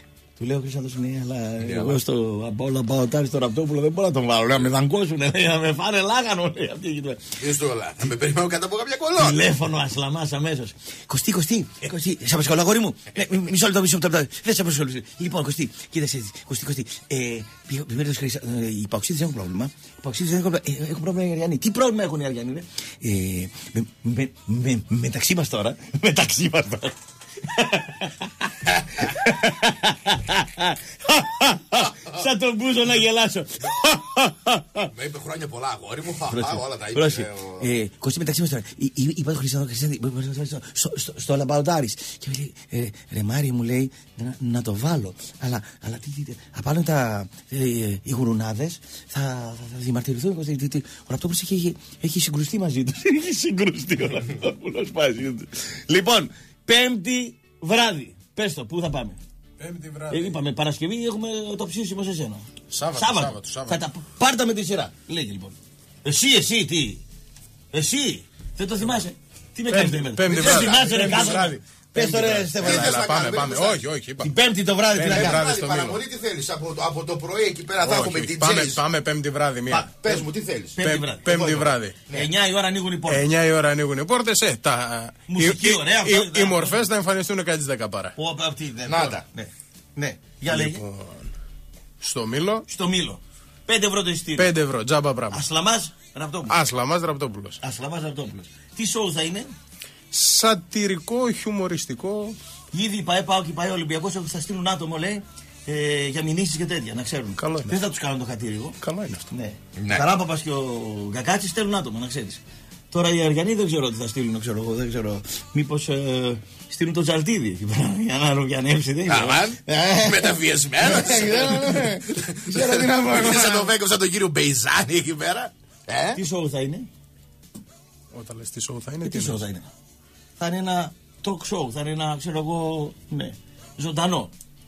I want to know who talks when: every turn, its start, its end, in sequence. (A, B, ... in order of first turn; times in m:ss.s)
0:00.4-0:07.2 A
0:01.6-0:02.0 B
0:07.4-0:09.4 B
0:09.2-0:34.9 A
0:34.9-0:37.7 B
0:36.3-0:59.2 A
0:59.6-1:00.4 C
1:00.1-1:07.0 A
1:02.7-1:03.8 C
1:07.7-1:13.0 A
1:09.7-1:14.3 C
1:10.3-1:11.5 B
1:12.6-1:13.8 B
1:14.2-1:15.4 A
1:14.9-1:16.0 C
1:15.1-1:18.8 B
1:17.8-1:19.9 C
1:19.7-1:20.2 A
1:20.0-1:20.8 B
1:20.7-1:23.2 A
1:20.8-1:22.0 C
1:23.1-1:28.1 C
1:25.3-1:26.8 A
1:28.2-1:30.8 A
1:28.9-1:29.2 B
1:30.5-1:31.3 C
1:32.0-1:32.6 C
1:32.7-1:34.5 A
1:34.4-1:35.4 C
1:35.3-1:36.6 A
1:36.5-1:37.6 C
1:37.6-1:39.5 A
1:40.1-1:42.4 C
1:42.7-1:48.8 A
1:47.4-1:47.8 C
1:48.8-1:49.3 C
1:49.3-1:52.4 A
1:49.8-1:50.1 B
1:52.9-2:03.7 A
1:59.1-2:06.2 B
2:06.1-2:06.9 A
2:08.1-2:09.4 C
2:09.0-2:09.7 A
2:10.4-2:14.3 A